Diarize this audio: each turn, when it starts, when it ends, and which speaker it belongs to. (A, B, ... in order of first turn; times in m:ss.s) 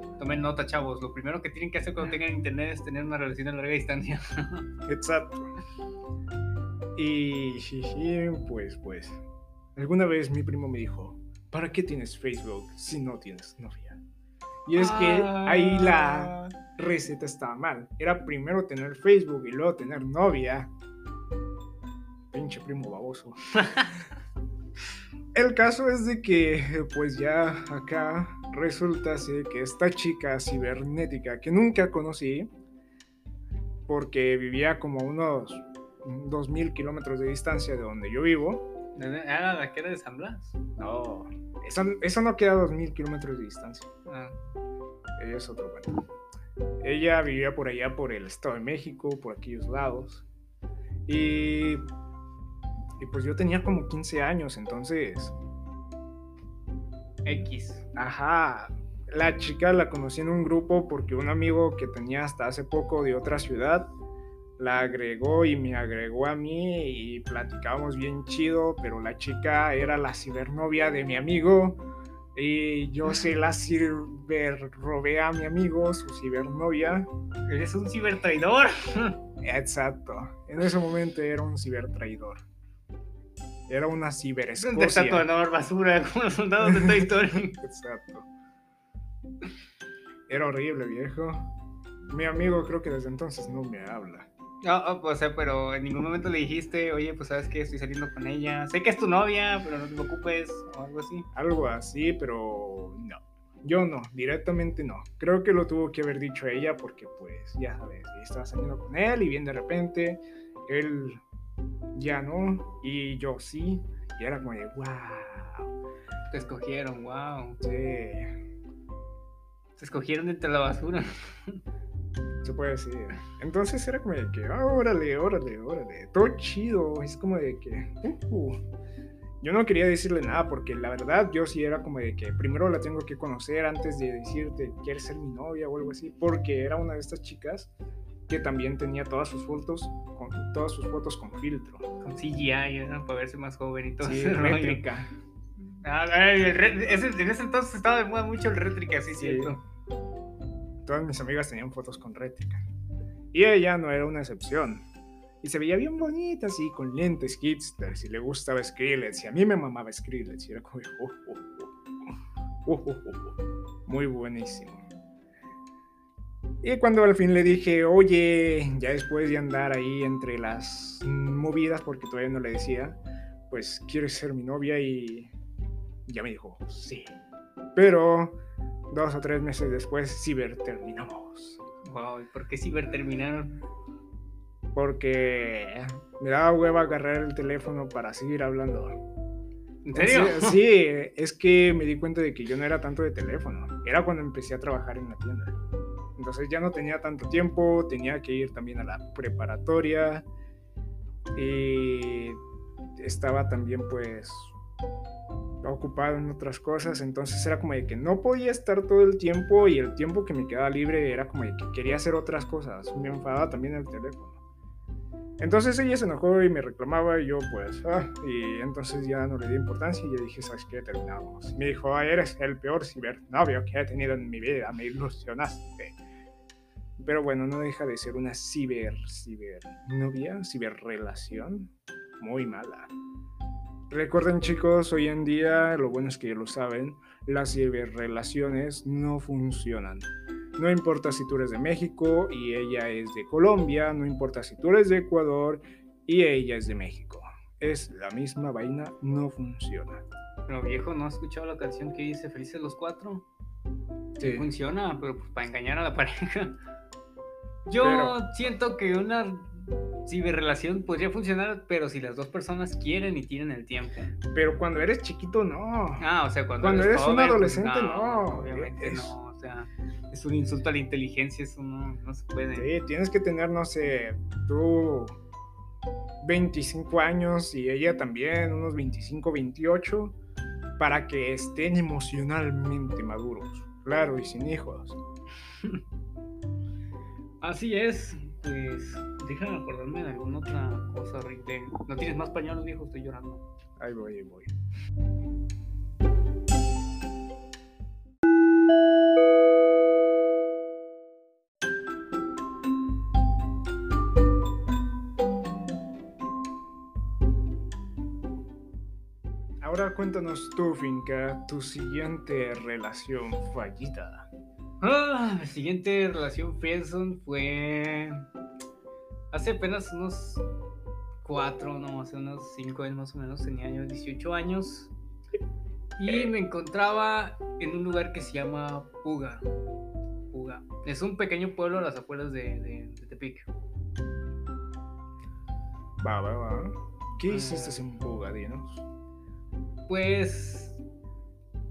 0:00.2-0:04.7 A
0:04.9-0:05.5 B
0:07.0-0:09.2 B
0:09.8-0:14.0 B
0:14.6-0:20.7 B
0:14.8-0:16.6 A
0:22.3-0:23.4 B
0:23.6-0:23.9 A
0:25.4-0:32.5 B
0:33.9-0:38.6 B
0:39.0-0:40.6 A
0:40.8-0:43.9 B
0:44.1-0:44.4 A
0:45.2-0:46.0 B
0:46.8-0:50.2 B
0:51.1-0:51.9 B
0:53.0-0:55.4 B
0:57.2-0:57.9 A
0:58.0-1:03.9 B
1:04.6-1:11.8 B
1:12.4-1:17.1 B
1:17.5-1:19.2 A
1:19.4-1:22.4 B
1:23.7-1:25.3 B
1:24.6-1:27.6 A
1:26.7-1:28.3 B
1:30.3-1:31.5 B
1:32.1-1:34.3 B
1:34.6-1:41.3 A
1:41.4-1:51.2 B
1:51.9-1:55.7 B
1:56.3-1:57.6 A
1:57.6-1:58.4 B
1:59.8-2:01.6 A
2:02.4-2:08.6 B
2:09.4-2:17.7 B
2:18.3-2:21.8 B
2:22.0-2:24.8 A
2:24.0-2:25.1 B
2:25.8-2:29.6 A
2:29.1-2:29.6 B
2:30.8-2:32.6 B
2:33.3-2:34.8 B
2:35.4-2:44.8 B
2:46.6-2:53.0 B
2:53.5-2:55.3 B
2:56.1-2:57.2 B
2:57.8-3:01.6 B
3:01.8-3:03.6 A
3:04.8-3:09.0 B
3:09.8-3:10.6 A
3:09.9-3:15.6 B
3:16.2-3:20.3 B
3:21.4-3:22.4 B
3:23.0-3:24.5 B
3:25.6-3:34.4 B
3:35.4-3:46.0 B
3:47.0-3:52.9 B
3:53.9-4:10.0 B
4:10.5-4:13.2 A
4:14.2-4:14.5 B
4:14.2-4:16.6 A
4:17.6-4:24.2 A
4:17.8-4:18.1 B
4:24.3-4:26.0 B
4:26.0-4:32.7 A
4:26.6-4:29.1 B
4:32.5-4:35.2 B
4:36.2-4:40.2 B
4:40.8-4:45.0 B
4:45.5-4:45.8 A
4:47.4-4:53.4 A
4:53.8-4:54.5 B
5:09.6-5:14.3 B
5:14.8-5:18.2 A
5:19.3-5:20.4 A
5:21.2-5:24.9 A
5:26.0-5:29.5 A
5:30.3-5:33.5 A
5:36.0-5:38.8 B
5:37.3-5:37.8 A
5:39.9-5:40.8 A